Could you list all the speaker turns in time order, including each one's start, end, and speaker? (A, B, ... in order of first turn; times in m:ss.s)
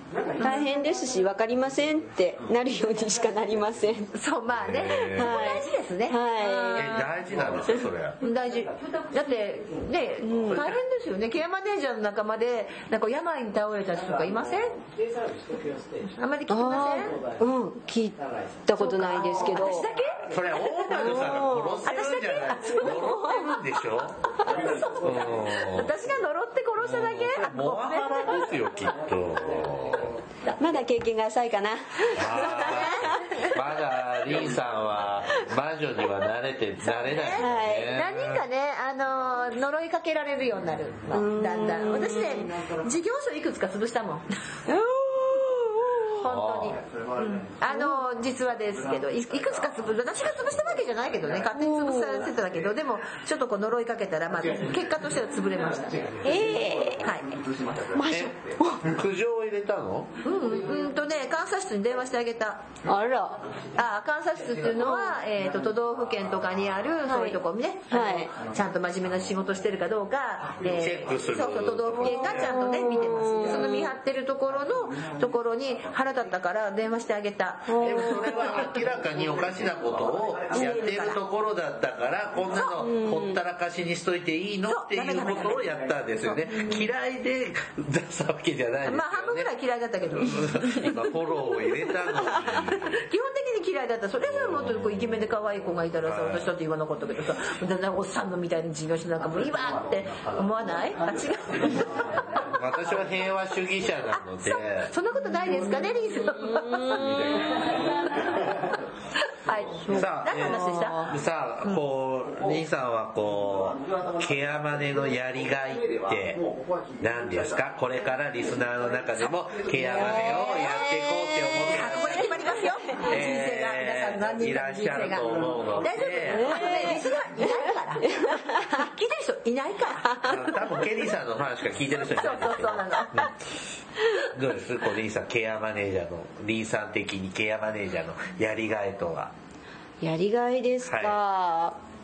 0:00.4-0:04.1 A
0:04.1-0:07.1 B
0:04.5-0:05.4 C
0:05.1-0:07.0 A
0:06.7-0:08.2 C
0:08.2-0:14.8 B
0:10.2-0:10.7 A
0:16.0-0:17.2 B
0:16.5-0:19.9 A
0:18.8-0:21.3 B
0:20.2-0:24.2 C
0:20.9-0:21.8 A
0:21.8-0:23.4 B
0:22.8-0:23.5 A
0:24.4-0:28.5 B
0:24.9-0:25.9 C
0:26.8-0:30.1 C
0:30.6-0:33.5 A
0:32.1-0:38.4 C
0:36.8-0:44.2 B
0:37.4-0:37.9 A
0:41.1-0:42.5 A
0:46.1-0:56.2 B
0:46.2-0:46.8 C
0:47.7-0:48.0 A
0:51.6-0:52.3 A
0:56.2-0:57.0 A
0:57.0-0:57.3 B
0:57.9-0:58.8 A
0:58.1-1:00.1 C
1:00.2-1:02.6 B
1:02.8-1:03.4 A
1:03.8-1:18.7 B
1:07.0-1:07.4 A
1:07.9-1:08.3 A
1:10.8-1:12.6 C
1:12.3-1:13.9 A
1:17.7-1:18.3 A
1:17.8-1:29.5 C
1:20.5-1:21.2 B
1:22.8-1:23.4 A
1:24.7-1:25.8 B
1:26.3-1:26.8 B
1:28.8-1:31.0 B
1:30.2-1:32.9 C
1:32.7-1:42.1 B
1:34.4-1:34.7 C
1:36.0-1:36.5 C
1:42.5-1:44.9 C
1:44.1-1:47.4 B
1:46.4-1:47.4 A
1:49.4-1:51.8 B
1:49.9-1:56.4 C
1:57.0-2:02.4 C
1:59.8-2:00.4 B
1:59.8-2:02.3 A
2:01.6-2:10.4 B
2:03.0-2:06.6 C
2:06.3-2:07.5 A
2:10.2-2:13.3 C
2:12.2-2:13.3 B
2:14.3-2:19.3 C
2:20.0-2:21.8 A
2:20.8-2:21.2 C